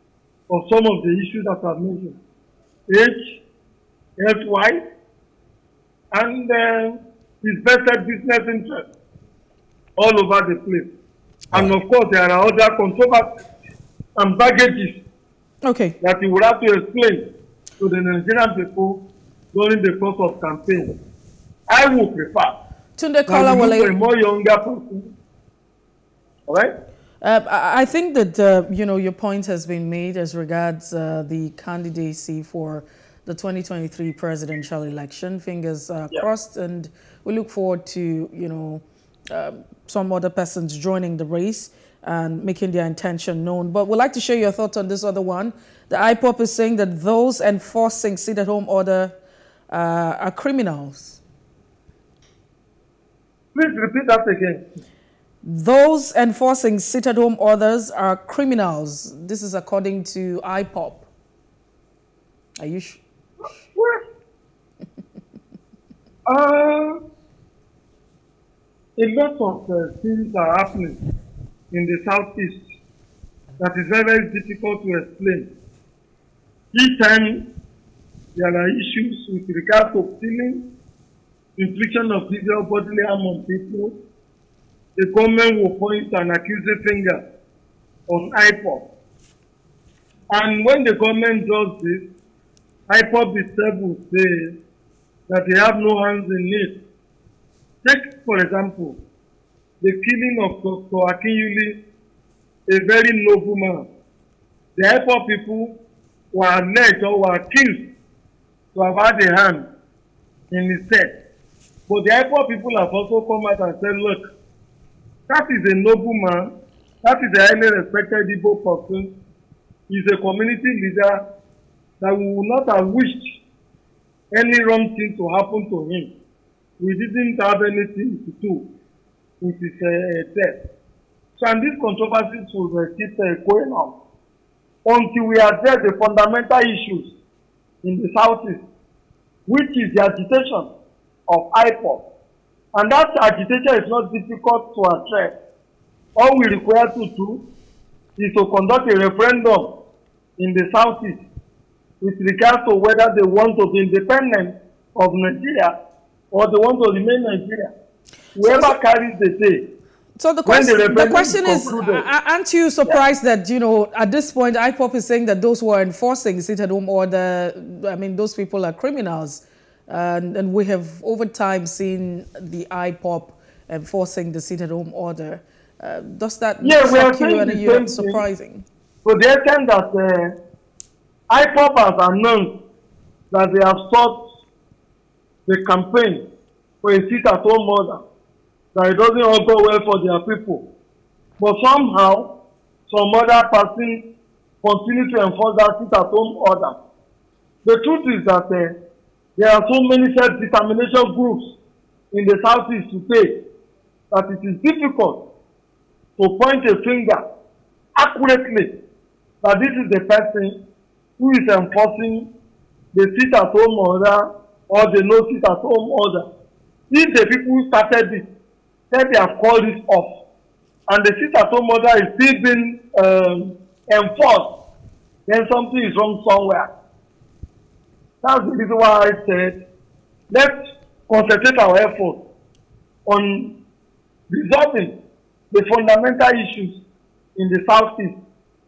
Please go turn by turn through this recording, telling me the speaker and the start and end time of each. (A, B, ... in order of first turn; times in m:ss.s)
0:00.5-0:02.2 A
0:02.9-0:03.4 A
0:04.2-0:04.8 A
0:06.1-0:08.9 A
0:10.0-0:10.9 A
0:11.5-0:13.3 A
0:14.2-0:15.0 A
0:15.6-0:15.9 B
0:16.0-0:17.2 A
0:17.8-0:21.0 A
0:21.7-0:22.5 A
0:23.0-0:24.0 B
0:23.3-0:25.1 A
0:26.5-0:26.7 A
0:27.2-0:49.2 B
0:49.7-0:51.2 B
0:53.5-0:54.6 A
0:55.4-1:01.1 B
1:02.6-1:03.0 B
1:03.7-1:04.0 A
1:06.3-1:07.0 A
1:09.0-1:11.0 A
1:11.7-1:12.6 A
1:13.6-1:15.5 A
1:16.7-1:17.4 A
1:18.4-1:20.6 A
1:21.6-1:24.0 A
1:25.0-1:27.2 A
1:28.1-1:28.8 A
1:30.3-1:32.1 A
1:32.9-1:34.5 A
1:35.3-1:36.8 A
1:37.8-1:39.0 A
1:39.8-1:41.8 A
1:42.7-1:43.9 A
1:44.8-1:45.8 A
1:46.3-1:47.9 A
1:48.7-1:49.7 A
1:50.5-1:51.1 A
1:51.9-1:54.2 A
1:55.3-1:59.1 A
1:59.9-2:01.2 A
2:02.0-2:03.3 A
2:04.3-2:06.1 A
2:06.8-2:08.7 A
2:09.4-2:10.6 A
2:11.4-2:13.9 A
2:14.8-2:17.1 A
2:17.8-2:18.6 A
2:19.5-2:20.7 A
2:21.3-2:22.0 A
2:22.7-2:25.3 A
2:26.2-2:27.4 A
2:28.2-2:29.7 A
2:30.4-2:31.2 A
2:32.0-2:35.7 A
2:36.3-2:37.7 A
2:38.4-2:39.6 A
2:38.4-2:38.8 B
2:40.2-2:58.6 B
2:40.4-2:42.0 A
2:56.6-2:58.2 A
2:59.0-3:00.4 A
3:01.3-3:02.5 A
3:03.3-3:04.2 A
3:05.4-3:06.2 A
3:06.8-3:08.0 A
3:08.7-3:10.6 A
3:11.4-3:12.3 A
3:12.9-3:14.0 A
3:14.6-3:16.8 A
3:17.6-3:18.8 A
3:19.4-3:21.5 A
3:22.1-3:23.4 A
3:24.1-3:25.2 A
3:26.2-3:27.2 A
3:28.0-3:28.7 A
3:29.4-3:30.6 A
3:31.2-3:32.3 A
3:32.9-3:36.3 A
3:36.9-3:38.2 A
3:38.9-3:40.1 A
3:40.9-3:44.5 A
3:45.3-3:46.7 A
3:48.2-3:49.6 A
3:50.3-3:50.6 A
3:51.1-3:52.2 A
3:53.0-3:53.5 A
3:54.3-3:55.0 A
3:55.5-3:56.8 A
3:57.4-3:58.2 A